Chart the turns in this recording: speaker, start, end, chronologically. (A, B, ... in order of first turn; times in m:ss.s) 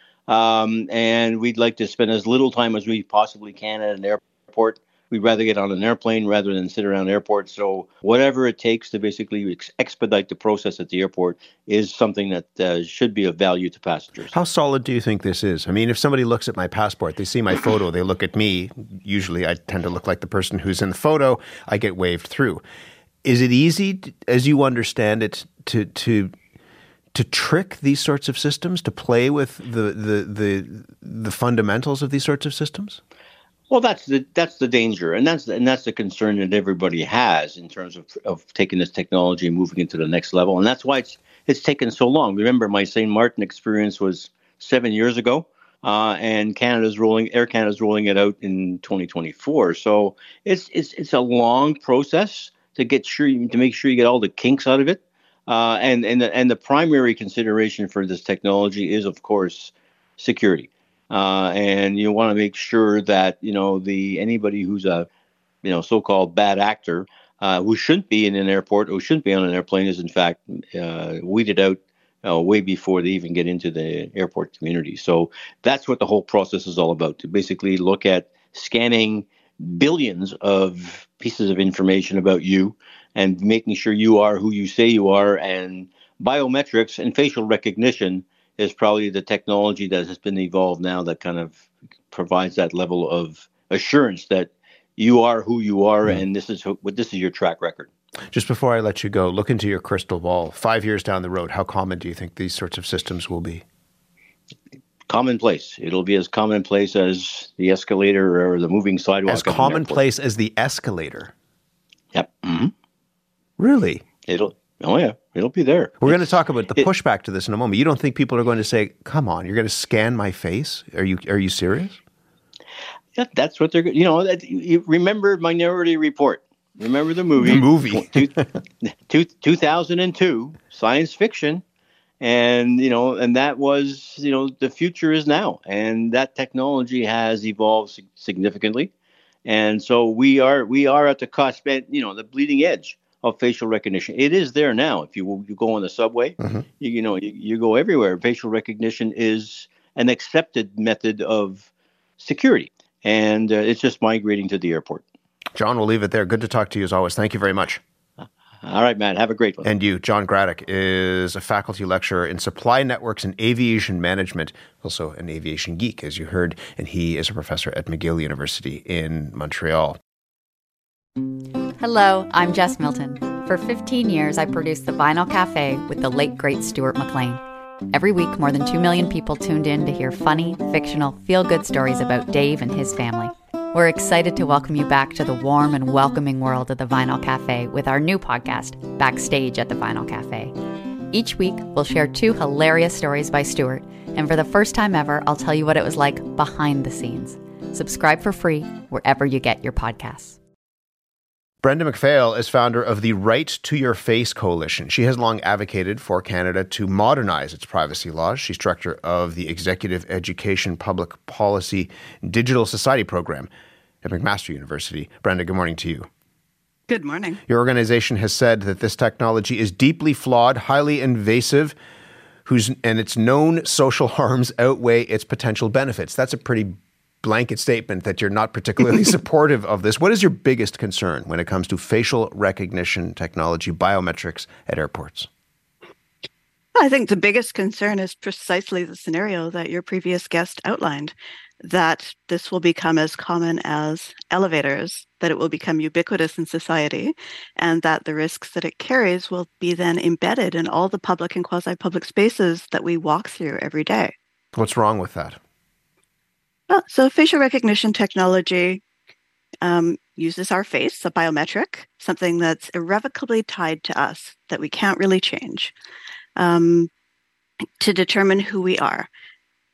0:00.3-0:14.3 A
0:14.3-0:22.6 B
0:23.2-0:26.3 B
0:27.1-0:33.0 B
0:33.7-1:05.1 A
1:05.6-1:37.9 A
1:38.3-1:43.6 B
1:45.1-1:50.0 A
1:49.3-1:51.3 B
1:52.1-1:52.7 A
1:53.6-1:54.0 B
1:54.3-1:56.3 A
1:56.0-2:02.0 B
2:03.2-2:11.6 A
2:07.4-2:08.4 B
2:12.2-2:18.9 A
2:19.4-2:35.0 A
2:35.5-2:37.8 B
2:38.6-2:39.7 A
2:39.6-2:50.0 B
2:51.8-3:10.5 C
3:11.1-3:20.4 C
3:21.6-3:33.5 B
3:34.0-3:36.1 B
3:36.9-3:37.4 D
3:37.5-3:41.8 B
3:42.4-3:55.3 B
3:56.7-4:14.1 D
4:14.5-4:15.4 B
4:16.7-4:18.8 D
4:19.6-4:25.7 D
4:26.4-4:26.9 D
4:27.8-4:29.1 D